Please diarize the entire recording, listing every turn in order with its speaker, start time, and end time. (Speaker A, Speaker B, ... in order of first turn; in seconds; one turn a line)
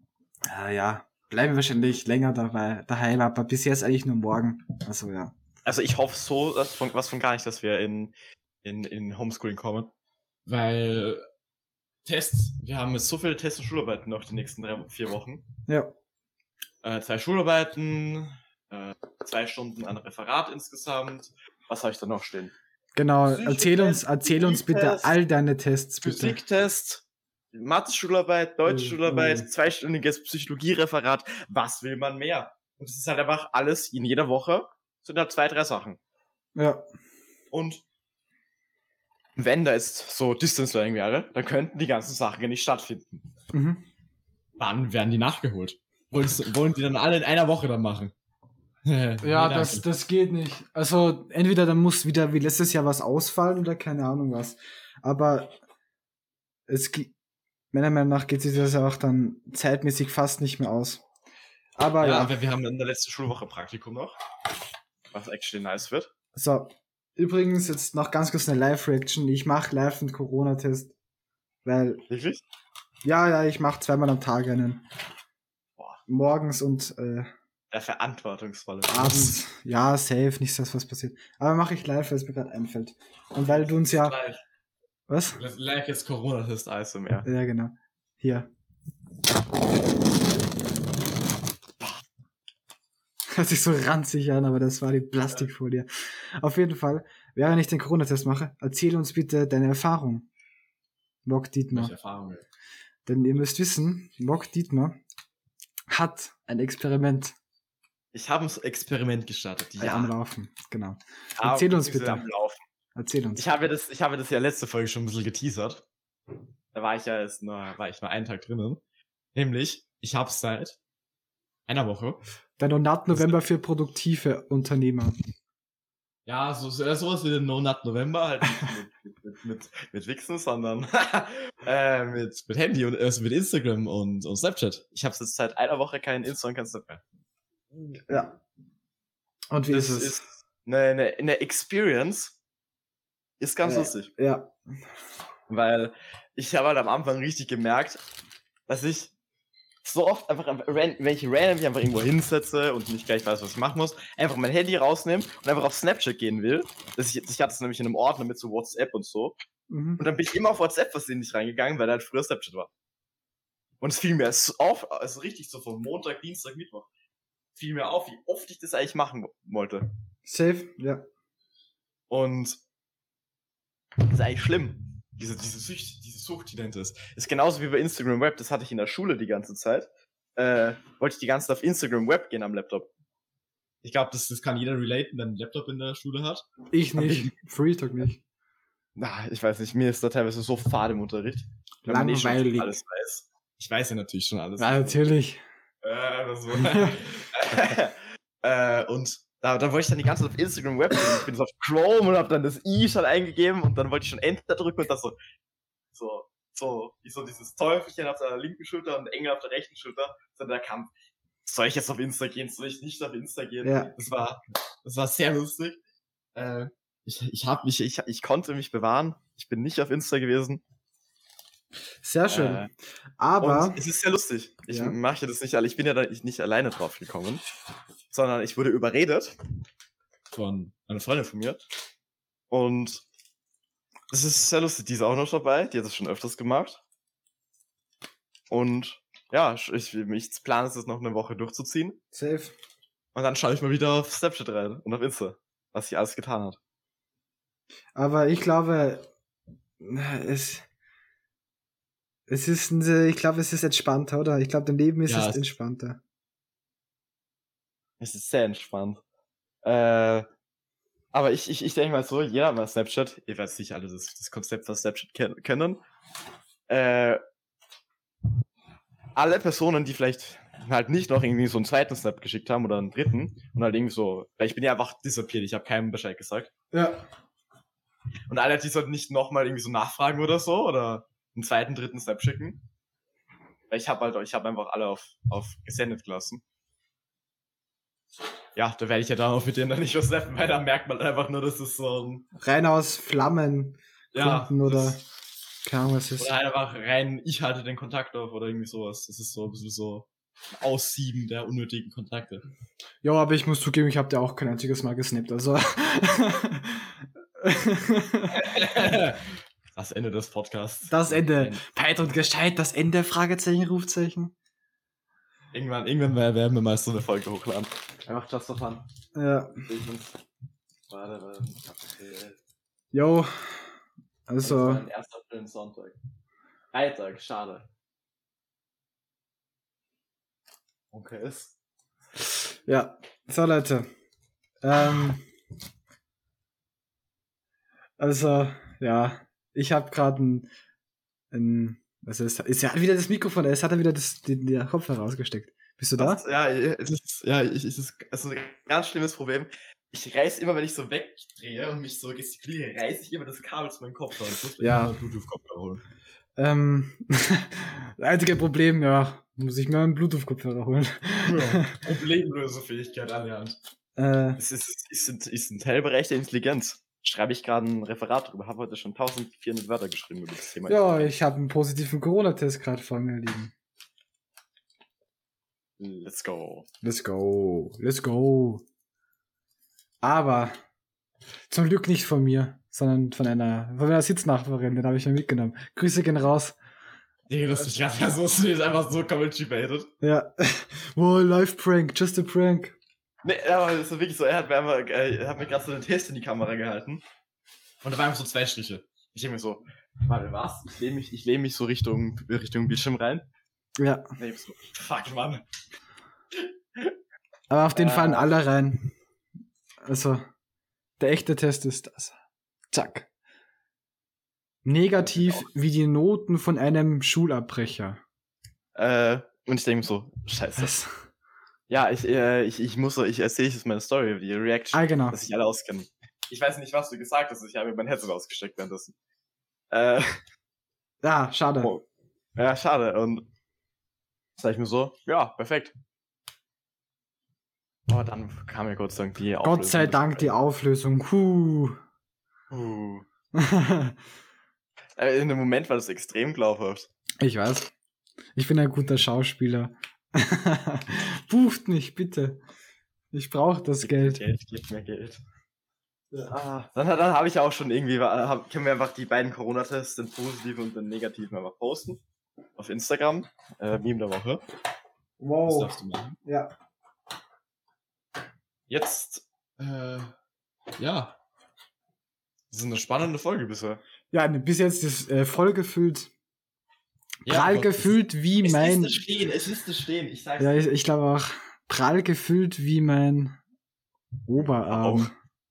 Speaker A: 0.4-5.3
Speaker B: 5.6-9.9
Speaker B: 10.5-11.2
Speaker B: 12.0-15.4
Speaker B: 16.8-22.5
Speaker A: 22.9-26.4
Speaker B: 23.2-25.1
Speaker B: 26.0-36.0
Speaker A: 28.6-29.5
Speaker A: 36.5-36.8
Speaker B: 37.5-37.8
Speaker B: 39.4-43.2
Speaker A: 43.5-43.8
Speaker B: 44.6-48.1
Speaker B: 48.9-49.9
Speaker A: 49.2-55.5
Speaker A: 56.7-57.1
Speaker A: 57.7-61.0
Speaker A: 61.8-62.4
Speaker B: 62.0-64.2
Speaker B: 65.1-66.1
Speaker A: 66.3-70.9
Speaker A: 71.6-72.0
Speaker B: 72.1-72.4
Speaker A: 73.0-74.8
Speaker A: 76.1-77.3
Speaker B: 77.7-79.4
Speaker A: 78.9-84.2
Speaker B: 83.4-84.4
Speaker A: 85.1-85.4
Speaker B: 85.3-87.3
Speaker A: 87.2-88.5
Speaker A: 93.3-100.3
Speaker A: 101.2-101.9
Speaker B: 101.7-102.4
Speaker A: 103.0-105.0
Speaker A: 105.9-107.3
Speaker B: 108.1-110.1
Speaker A: 109.8-112.3
Speaker B: 111.4-112.6
Speaker A: 112.9-113.5
Speaker B: 113.3-115.8
Speaker B: 116.7-118.8
Speaker B: 119.3-120.8
Speaker B: 121.7-122.2
Speaker A: 122.6-125.2
Speaker B: 123.1-123.4
Speaker B: 126.2-137.0
Speaker A: 138.1-138.3
Speaker A: 139.5-140.2
Speaker B: 139.7-142.3
Speaker B: 143.4-144.1
Speaker A: 143.6-144.5
Speaker B: 145.5-148.0
Speaker B: 148.7-149.1
Speaker B: 149.8-159.4
Speaker A: 159.7-160.0
Speaker B: 160.0-162.7
Speaker B: 163.8-166.9
Speaker B: 167.6-169.9
Speaker A: 170.2-171.0
Speaker B: 172.1-172.6
Speaker B: 174.0-182.9
Speaker B: 183.8-187.3
Speaker A: 186.7-188.2
Speaker B: 188.9-195.1
Speaker A: 191.8-192.7
Speaker A: 194.6-195.4
Speaker B: 195.8-205.2
Speaker A: 196.6-197.0
Speaker B: 205.9-210.9
Speaker B: 211.4-215.8
Speaker A: 213.6-213.9
Speaker B: 216.3-220.6
Speaker A: 222.0-222.6
Speaker B: 222.3-222.7
Speaker A: 223.2-223.8
Speaker B: 223.4-227.4
Speaker A: 224.7-224.9
Speaker B: 228.1-229.4
Speaker B: 230.3-231.6
Speaker B: 232.5-233.0
Speaker B: 234.1-236.8
Speaker B: 238.5-242.0
Speaker A: 242.1-242.5
Speaker B: 243.1-246.6
Speaker A: 247.9-249.1
Speaker A: 249.8-250.7
Speaker A: 252.3-256.0
Speaker B: 255.1-255.4
Speaker B: 258.0-259.0
Speaker B: 259.6-260.2
Speaker B: 261.1-265.8
Speaker B: 266.7-267.2
Speaker B: 269.1-276.5
Speaker A: 276.7-277.0
Speaker B: 278.3-282.6
Speaker B: 283.7-286.4
Speaker B: 288.6-292.2
Speaker A: 292.4-295.0
Speaker B: 294.1-295.0
Speaker A: 295.6-296.3
Speaker B: 296.2-300.1
Speaker B: 300.6-302.4
Speaker A: 303.0-308.4
Speaker B: 308.3-311.6
Speaker A: 310.9-314.3
Speaker B: 315.5-318.8
Speaker A: 319.1-319.6
Speaker B: 319.7-320.1
Speaker B: 320.9-322.4
Speaker A: 322.9-323.7
Speaker A: 324.3-324.8
Speaker B: 324.4-325.9
Speaker B: 326.7-327.6
Speaker B: 330.9-331.5
Speaker A: 332.3-333.9
Speaker A: 334.6-335.2
Speaker A: 338.0-340.5
Speaker A: 341.3-346.2
Speaker B: 346.0-355.8
Speaker A: 354.6-354.9
Speaker A: 356.4-361.8
Speaker B: 361.2-363.6
Speaker A: 364.0-364.4
Speaker B: 364.4-371.1
Speaker A: 370.7-373.5
Speaker B: 375.8-376.7
Speaker A: 376.8-378.6
Speaker A: 380.0-380.6
Speaker A: 381.5-386.6
Speaker B: 387.3-389.9
Speaker A: 390.0-392.7
Speaker B: 393.2-397.0
Speaker B: 397.8-403.2
Speaker A: 403.8-404.1
Speaker B: 404.2-405.4
Speaker A: 407.5-408.9
Speaker B: 407.7-408.3
Speaker A: 409.8-410.2
Speaker A: 411.0-412.1
Speaker A: 412.7-413.1
Speaker A: 414.6-418.0
Speaker B: 415.0-415.5
Speaker B: 418.8-420.7
Speaker A: 420.6-420.9
Speaker B: 421.7-428.9
Speaker A: 424.7-425.2
Speaker B: 429.7-430.2
Speaker A: 431.0-431.7
Speaker B: 432.4-433.2
Speaker B: 434.4-435.7
Speaker B: 437.9-440.3
Speaker A: 439.4-441.8
Speaker B: 442.5-443.0
Speaker A: 443.3-444.0
Speaker B: 445.0-446.9
Speaker A: 447.2-447.7
Speaker A: 448.4-452.4
Speaker A: 453.1-454.2
Speaker B: 453.8-455.2
Speaker B: 456.2-462.0
Speaker B: 462.6-464.4
Speaker A: 465.2-465.7
Speaker B: 465.4-466.2
Speaker A: 466.2-466.5
Speaker B: 468.7-470.1
Speaker B: 470.8-471.1
Speaker B: 472.5-473.8
Speaker A: 474.1-476.1
Speaker B: 477.2-480.6
Speaker A: 477.3-478.9
Speaker A: 480.4-483.4
Speaker A: 484.2-485.1
Speaker B: 484.7-485.1